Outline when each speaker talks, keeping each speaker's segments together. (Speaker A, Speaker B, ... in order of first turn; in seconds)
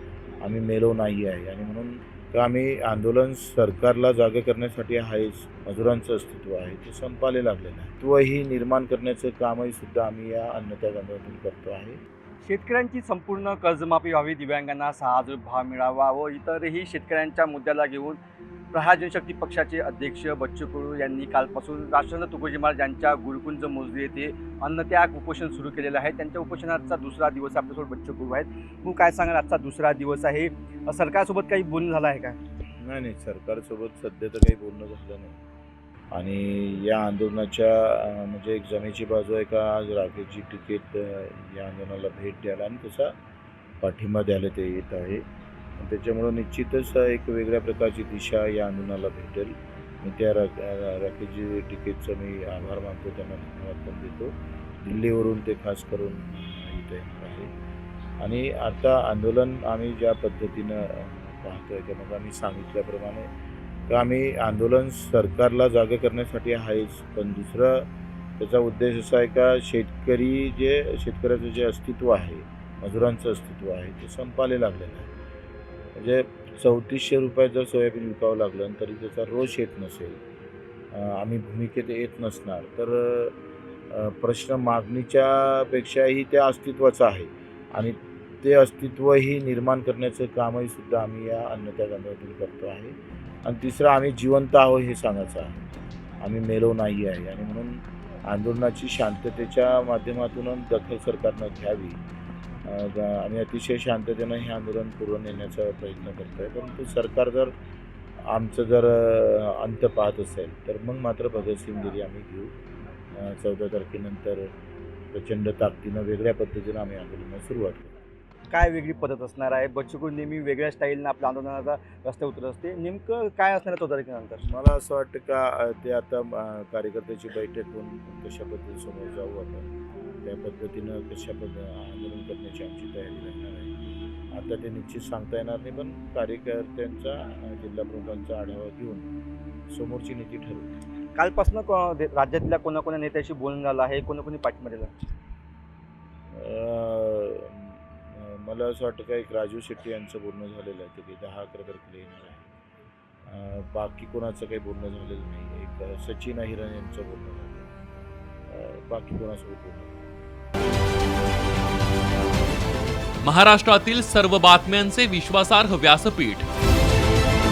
Speaker A: 0.4-12.0, 32.8-35.4, 36.1-43.1, 43.8-45.2, 45.8-57.5, 58.2-63.3, 63.9-67.9, 68.4-75.1, 76.0-80.2, 80.9-83.4, 83.9-95.7, 96.2-102.0, 102.7-107.5, 108.3-112.5, 113.1-114.5, 115.1-117.9, 124.4-129.7, 130.2-133.8, 134.3-139.1, 139.7-140.7, 146.3-152.5, 153.3-157.7, 158.5-160.1
Speaker B: 12.4-18.2, 18.7-32.4, 118.5-124.4, 141.2-144.9
Speaker C: 163.2-166.5